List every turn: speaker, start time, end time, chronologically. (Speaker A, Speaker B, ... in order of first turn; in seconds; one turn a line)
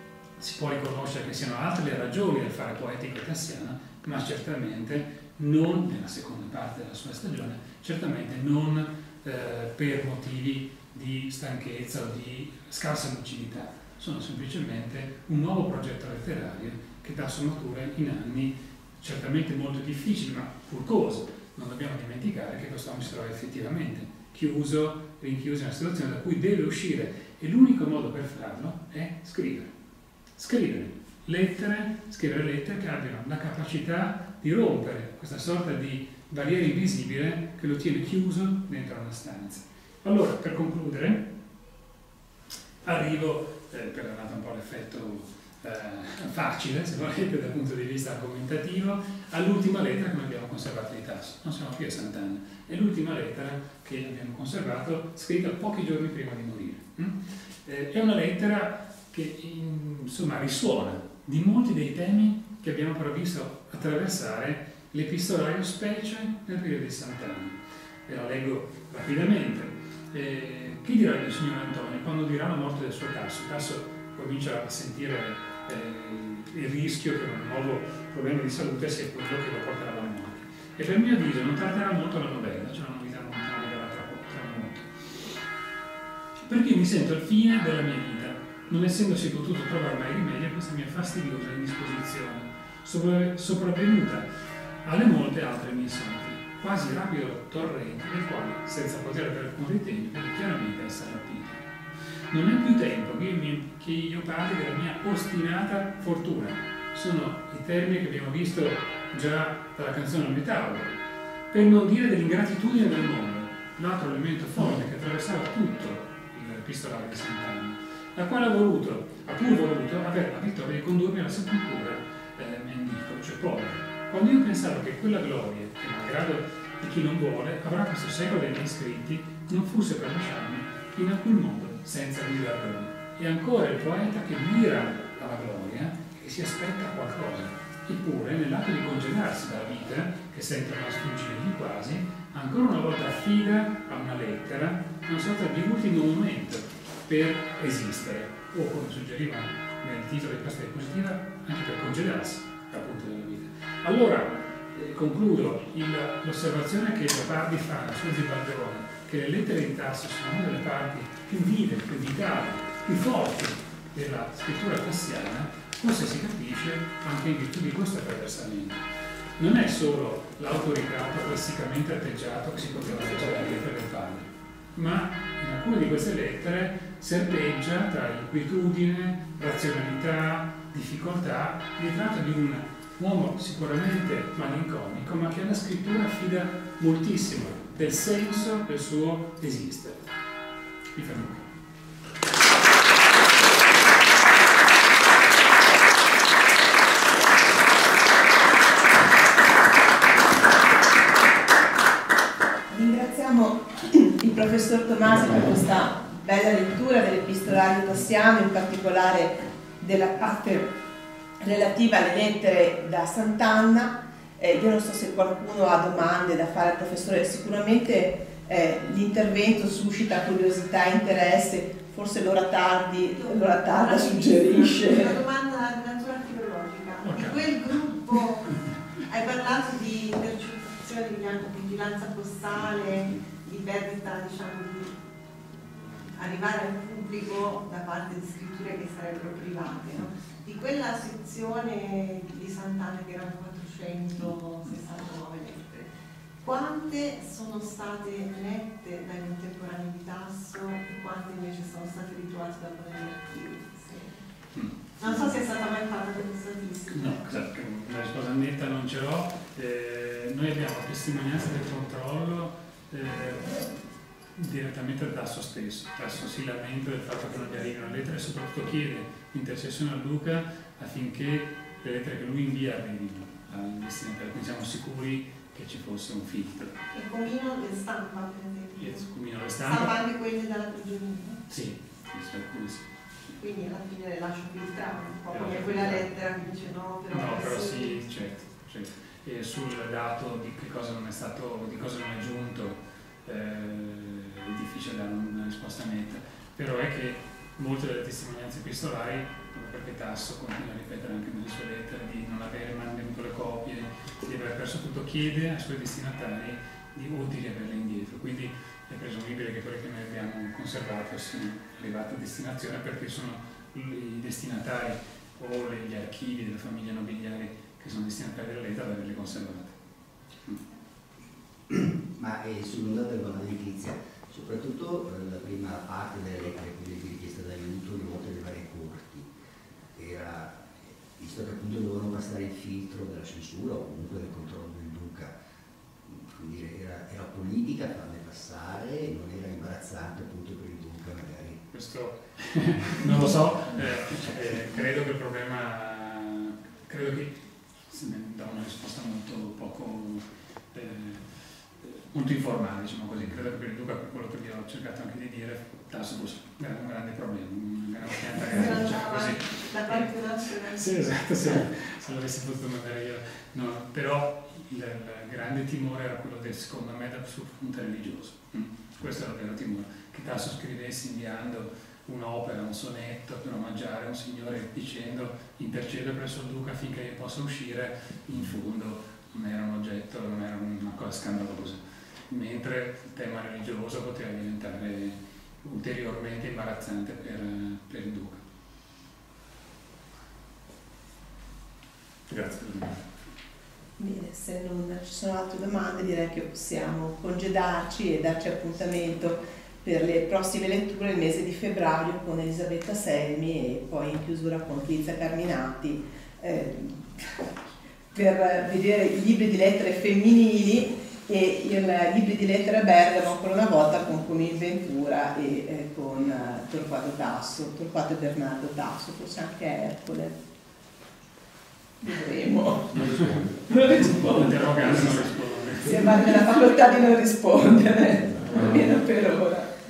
Speaker A: 0.4-29.7
Speaker A: 30.4-41.3
Speaker A: 42.8-85.4
Speaker A: 86.4-94.3
Speaker A: 94.8-101.7
Speaker A: 102.3-111.0
Speaker A: 111.5-168.8
Speaker A: 169.4-190.1
Speaker A: 190.9-191.5
Speaker B: 202.7-210.7
Speaker B: 211.4-225.2
Speaker C: 224.0-235.0
Speaker A: 227.0-227.6
Speaker C: 236.2-245.9
Speaker C: 246.4-254.2
Speaker A: 254.5-255.2
Speaker C: 255.0-257.3
Speaker A: 256.9-263.6
Speaker A: 264.4-276.8
Speaker C: 276.9-279.0
Speaker A: 278.8-279.9
Speaker C: 279.6-281.4
Speaker A: 281.5-282.9
Speaker C: 283.4-288.0
Speaker A: 285.3-286.1
Speaker A: 287.1-319.8
Speaker D: 321.7-329.3
Speaker D: 329.9-335.3
Speaker D: 336.0-341.6
Speaker A: 341.7-351.2
Speaker A: 351.8-388.4
Speaker C: 358.4-361.1
Speaker A: 392.3-393.0
Speaker B: 394.0-407.4
Speaker B: 408.1-420.4
Speaker B: 422.0-424.9
Speaker A: 424.2-426.1
Speaker B: 425.7-429.7